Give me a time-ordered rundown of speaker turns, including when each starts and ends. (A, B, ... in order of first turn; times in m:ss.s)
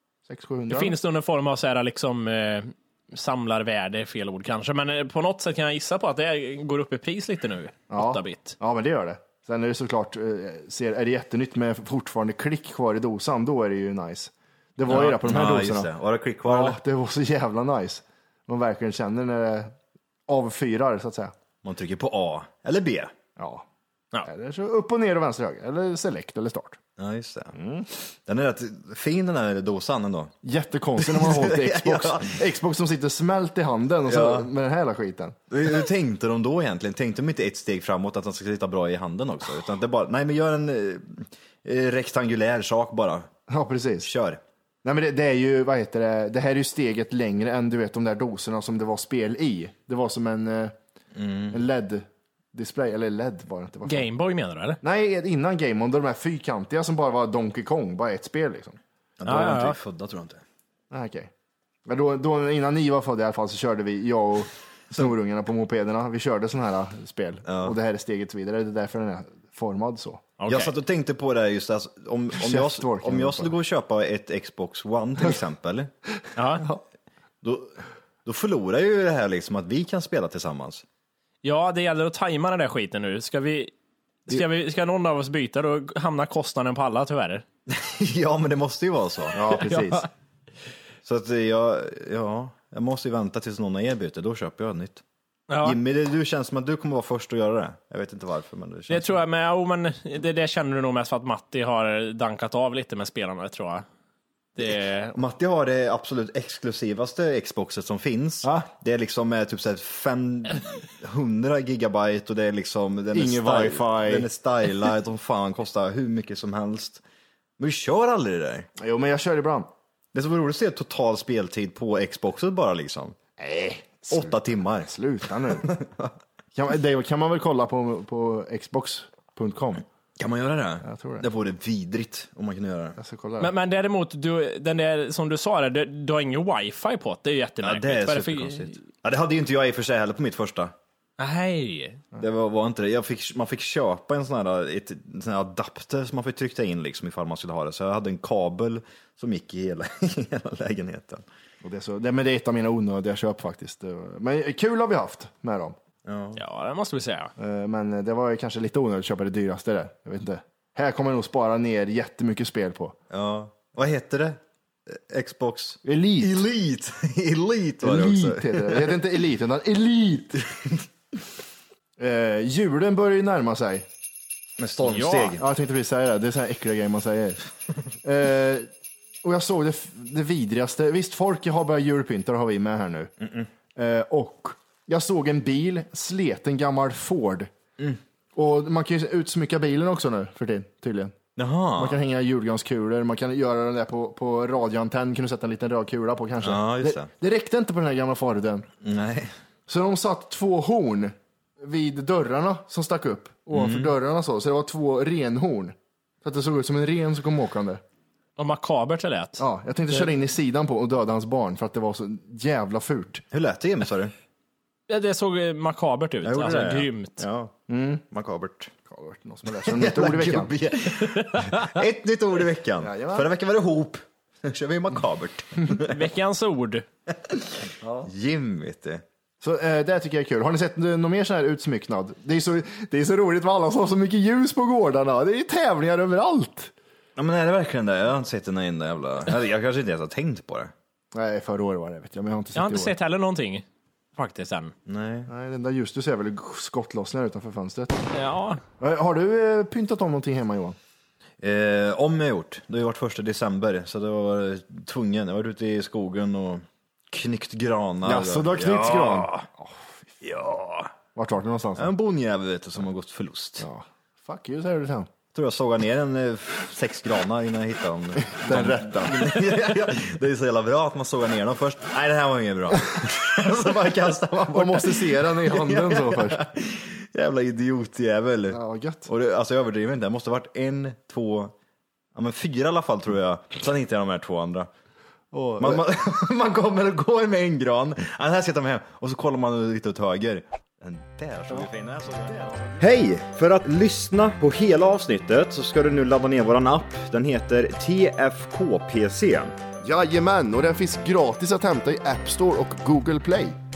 0:00.2-0:00.9 A
0:00.7-0:08.5 B
0:07.9-0:15.9 A
0:14.9-0:16.8 C
0:14.9-0:15.2 B
0:16.4-0:19.7 A
0:20.3-0:21.3 A
0:21.6-0:23.1 C
0:23.4-0:23.6 A
0:24.2-0:26.8 A
0:27.0-0:27.5 C
0:27.5-0:27.9 A
0:28.1-0:30.3 C
0:30.4-0:35.4 A
0:31.0-0:32.4 C
0:34.0-0:34.5 C
0:35.5-0:43.3 C
0:43.5-0:44.1 A
0:44.0-0:44.4 C
0:44.8-0:50.7 A
0:51.1-0:51.6 C
0:51.5-0:54.1 A
0:53.8-0:54.8 B
0:54.8-0:58.8 A
0:59.2-1:00.4 C
0:59.2-0:59.8 B
1:00.9-1:01.3 A
1:01.8-1:10.3 A
1:07.5-1:07.8 C
1:10.4-1:10.7 B
1:10.5-1:15.9 C
1:12.3-1:13.5 A
1:16.4-1:16.6 B
1:17.4-1:20.8 C
1:21.4-1:23.7 B
1:24.3-1:27.4 B
1:27.7-1:29.5 C
1:29.3-1:30.0 A
1:29.6-1:30.1 B
1:31.0-1:35.0 C
1:35.5-1:35.8 B
1:35.6-1:39.1 C
1:38.9-1:43.8 B
1:44.6-1:45.1 B
1:44.6-1:57.0 C
1:48.4-1:48.7 A
1:53.1-1:54.3 A
1:57.6-1:58.7 C
1:58.8-1:59.7 A
2:00.1-2:03.2 C
2:03.4-2:05.7 A
2:04.1-2:04.9 C
2:05.5-2:06.1 C
2:06.5-2:09.8 A
2:10.2-2:13.0 C
2:10.8-2:11.3 A
2:13.0-2:13.5 A
2:13.4-2:18.8 B
2:17.6-2:20.7 C
2:21.2-2:22.0 B
2:22.2-2:31.2 C
2:31.6-2:35.8 A
2:36.0-2:36.4 C
2:36.4-2:37.3 B
2:37.4-2:43.0 A
2:43.1-2:49.0 C
2:45.8-2:46.4 A
2:47.8-2:50.4 A
2:50.4-2:50.8 C
2:52.0-2:53.8 A
2:54.6-2:55.4 C
2:54.8-2:55.3 B
2:55.4-2:57.4 A
2:58.0-2:58.7 A
2:59.2-3:03.1 A
3:03.2-3:03.5 C
3:03.7-3:07.5 A
3:08.3-3:11.2 A
3:11.4-3:12.0 C
3:11.8-3:18.7 A
3:16.4-3:17.1 C
3:18.8-3:19.3 C
3:19.7-3:27.8 A
3:23.5-3:23.9 C
3:28.4-3:29.4 B
3:29.4-3:33.2 A
3:33.3-3:34.1 C
3:34.9-3:37.2 B
3:36.2-3:37.6 C
3:37.7-3:38.0 A
3:38.1-3:38.7 C
3:38.9-3:40.5 A
3:39.6-3:46.0 C
3:41.2-3:41.7 B
3:42.8-3:43.3 A
3:45.7-3:46.8 B
3:47.8-3:48.1 A
3:48.0-3:49.0 C
3:49.4-3:56.7 A
3:57.2-4:00.7 C
4:01.1-4:02.9 A
4:02.6-4:04.7 B
4:04.8-4:05.3 C
4:05.3-4:08.0 A
4:08.1-4:08.6 B
4:08.8-4:10.8 A
4:11.4-4:19.5 C
4:18.0-4:20.1 A
4:20.2-4:20.9 C
4:21.1-4:21.9 A
4:21.8-4:23.7 C
4:23.6-4:25.1 A
4:25.3-4:41.5 C
4:28.2-4:29.4 A
4:34.5-4:36.4 A
4:38.5-4:39.1 A
4:42.1-4:44.7 C
4:45.3-4:45.8 A
4:45.6-4:59.6 C
4:59.8-5:03.6 A